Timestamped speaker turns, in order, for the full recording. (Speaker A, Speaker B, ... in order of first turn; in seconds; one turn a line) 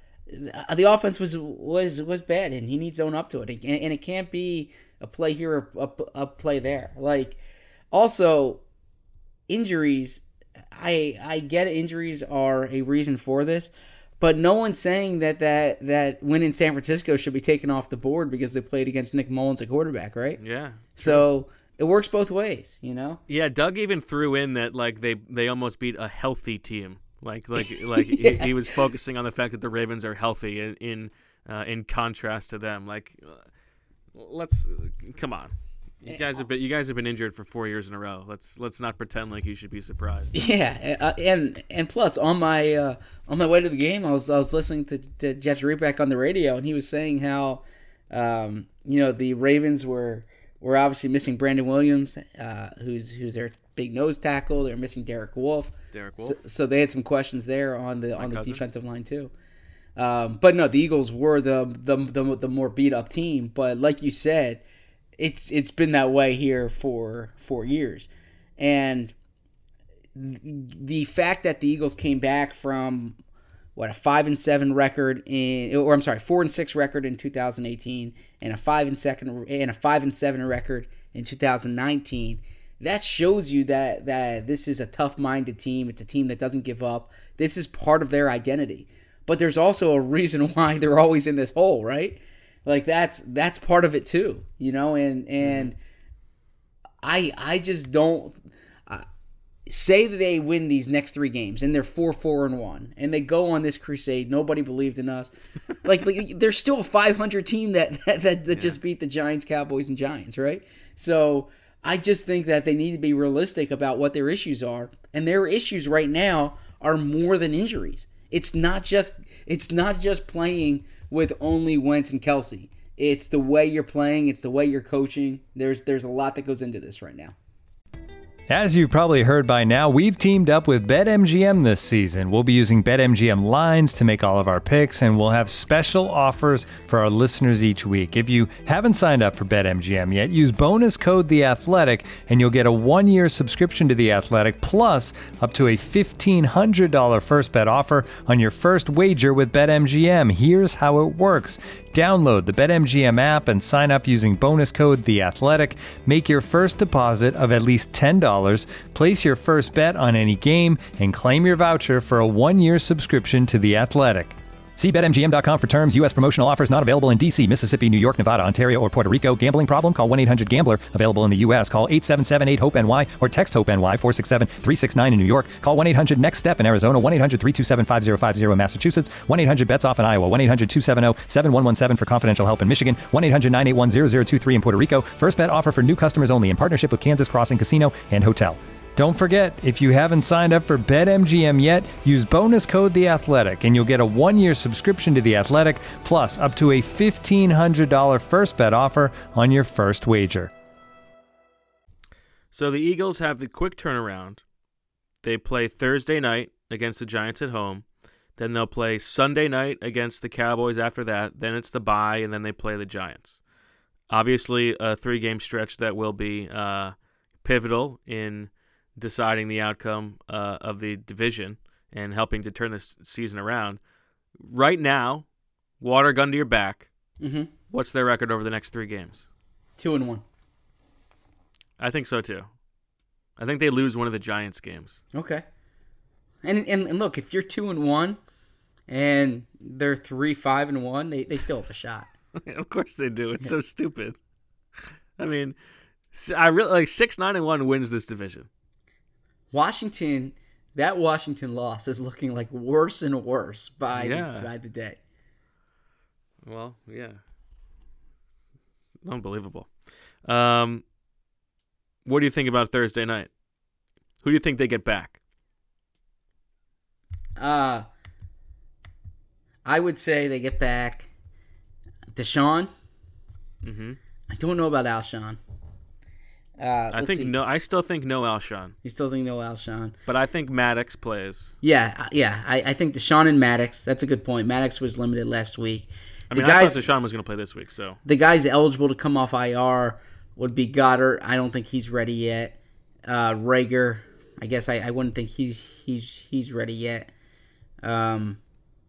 Speaker A: 0.3-7.4
Speaker A: 7.9-8.6
Speaker A: 9.5-20.4
Speaker B: 20.4-21.2
Speaker A: 21.0-23.2
Speaker B: 23.3-33.5
Speaker A: 27.6-28.5
Speaker B: 34.1-40.4
Speaker A: 36.1-36.4
Speaker A: 40.3-59.3
Speaker B: 55.9-56.4
Speaker B: 58.2-58.6
Speaker A: 60.0-64.6
Speaker A: 65.2-69.1
Speaker A: 70.2-73.2
Speaker A: 73.8-95.8
Speaker B: 95.4-95.7
Speaker A: 97.0-99.1
Speaker A: 99.7-105.3
Speaker A: 105.8-127.3
Speaker B: 108.5-108.8
Speaker C: 128.5-200.5
Speaker B: 202.5-204.4
Speaker B: 205.2-207.8
Speaker B: 208.4-213.4
Speaker B: 214.1-223.8
Speaker B: 224.4-225.3
Speaker B: 225.8-226.9
Speaker A: 227.2-227.5
Speaker B: 227.7-229.3
Speaker A: 229.8-230.2
Speaker B: 231.8-232.5
Speaker B: 233.4-235.0
Speaker A: 235.1-235.4
Speaker A: 236.4-238.2
Speaker A: 238.9-242.1
Speaker B: 242.4-244.2
Speaker B: 245.2-245.6
Speaker B: 246.1-248.5
Speaker A: 249.5-255.0
Speaker B: 253.9-254.5
Speaker B: 256.4-257.2
Speaker B: 259.0-259.7
Speaker B: 260.2-260.8
Speaker B: 262.1-263.3
Speaker B: 264.2-265.2
Speaker A: 267.4-267.9
Speaker A: 269.6-271.1
Speaker A: 272.1-272.7
Speaker B: 273.6-274.0
Speaker A: 274.3-275.4
Speaker A: 276.6-277.3
Speaker B: 276.9-278.8
Speaker A: 278.8-279.9
Speaker B: 280.1-281.5
Speaker A: 281.6-286.9
Speaker B: 286.3-288.0
Speaker A: 288.1-297.1
Speaker A: 297.8-298.4